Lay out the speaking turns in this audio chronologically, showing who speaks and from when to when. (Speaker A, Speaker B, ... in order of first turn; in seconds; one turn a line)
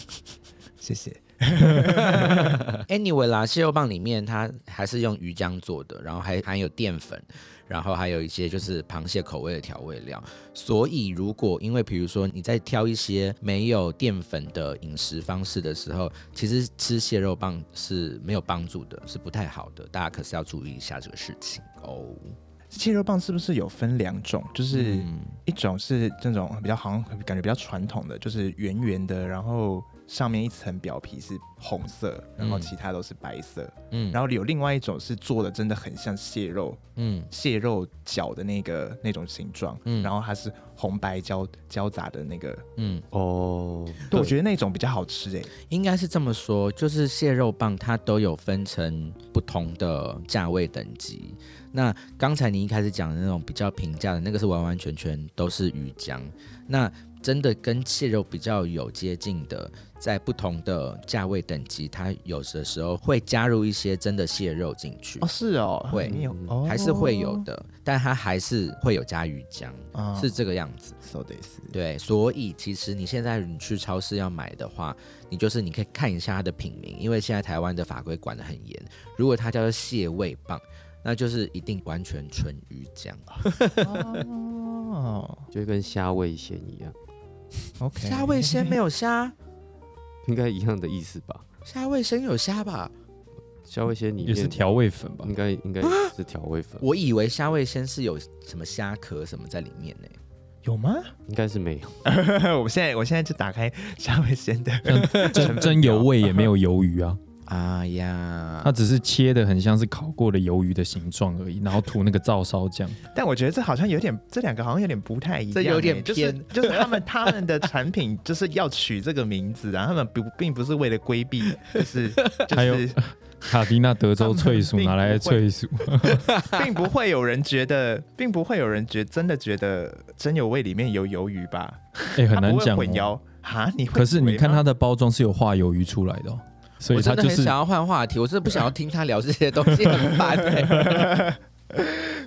Speaker A: 0.8-2.7
Speaker B: 2.2-22.4
Speaker A: 22.7-36.8
Speaker B: 24.7-25.4
Speaker B: 32.4-32.7
Speaker B: 33.9-34.2
Speaker B: 37.0-37.3
Speaker A: 37.3-42.6
Speaker B: 39.9-40.1
Speaker B: 42.8-43.0
Speaker C: 43.1-44.3
Speaker A: 44.1-45.5
Speaker B: 45.7-65.3
Speaker A: 65.2-67.4
Speaker B: 65.9-71.0
Speaker C: 66.1-66.5
Speaker A: 69.9-70.3
Speaker A: 71.0-71.8
Speaker B: 71.7-84.2
Speaker A: 83.8-85.4
Speaker C: 85.5-86.9
Speaker A: 87.8-88.8
Speaker B: 88.0-89.3
Speaker C: 90.2-91.4
Speaker B: 91.7-92.9
Speaker C: 93.7-96.8
Speaker D: 94.2-95.3
Speaker B: 95.8-96.1
Speaker B: 96.8-100.2
Speaker A: 100.6-101.1
Speaker C: 101.3-102.0
Speaker A: 102.0-106.5
Speaker D: 104.8-107.2
Speaker B: 107.5-108.8
Speaker D: 108.6-113.0
Speaker A: 113.1-123.0
Speaker B: 115.5-117.0
Speaker D: 122.5-126.3
Speaker A: 124.2-125.4
Speaker A: 126.3-134.6
Speaker B: 126.3-126.6
Speaker D: 132.2-133.1
Speaker D: 133.9-137.6
Speaker B: 136.9-141.2
Speaker A: 140.7-141.3